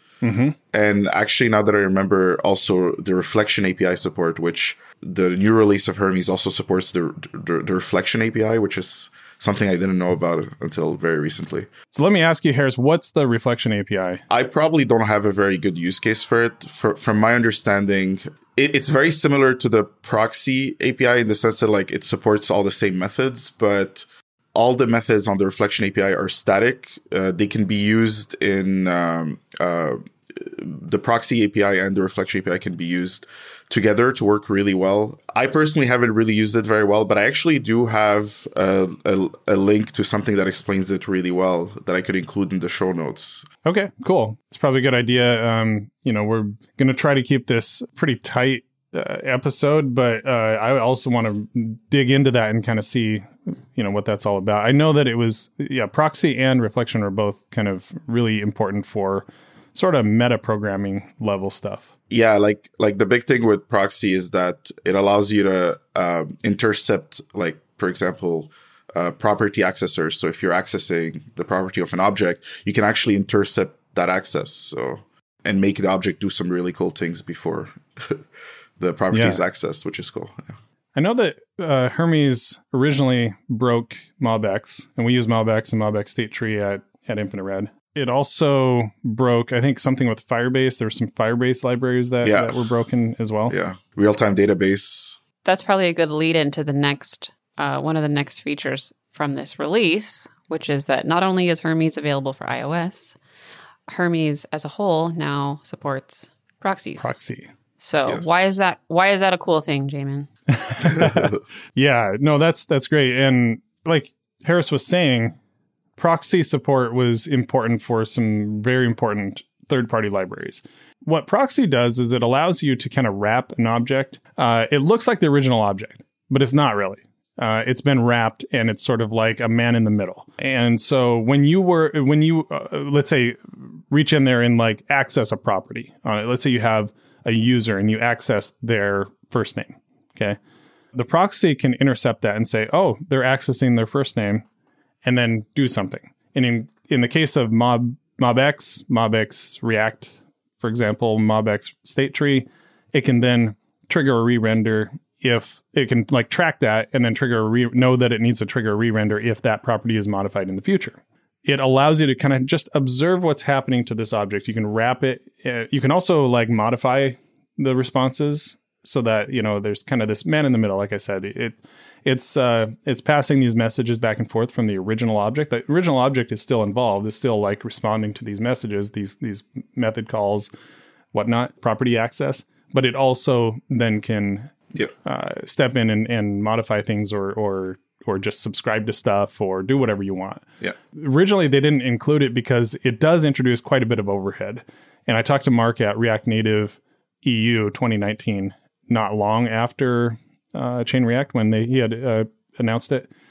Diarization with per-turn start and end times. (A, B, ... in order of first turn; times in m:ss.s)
0:00.2-0:00.6 A
0:00.7-0:11.7 B
0:11.9-0:14.2 A
0:14.3-0:43.5 B
0:43.6-1:01.9 A
1:02.1-1:18.2 B
1:18.8-1:20.6 B
1:19.1-1:19.4 A
1:21.0-1:33.5 A
1:32.2-1:32.7 B
1:33.5-1:35.2 B
1:35.4-1:43.2 C
1:43.9-1:47.1 C
1:47.0-1:47.5 A
1:47.8-1:50.3 C
1:48.1-1:48.5 B
1:50.5-1:55.4 A
1:50.9-1:51.4 B
1:56.0-2:20.4 A
2:20.9-2:24.4 A
2:25.0-3:00.5 A
3:01.1-3:23.1 A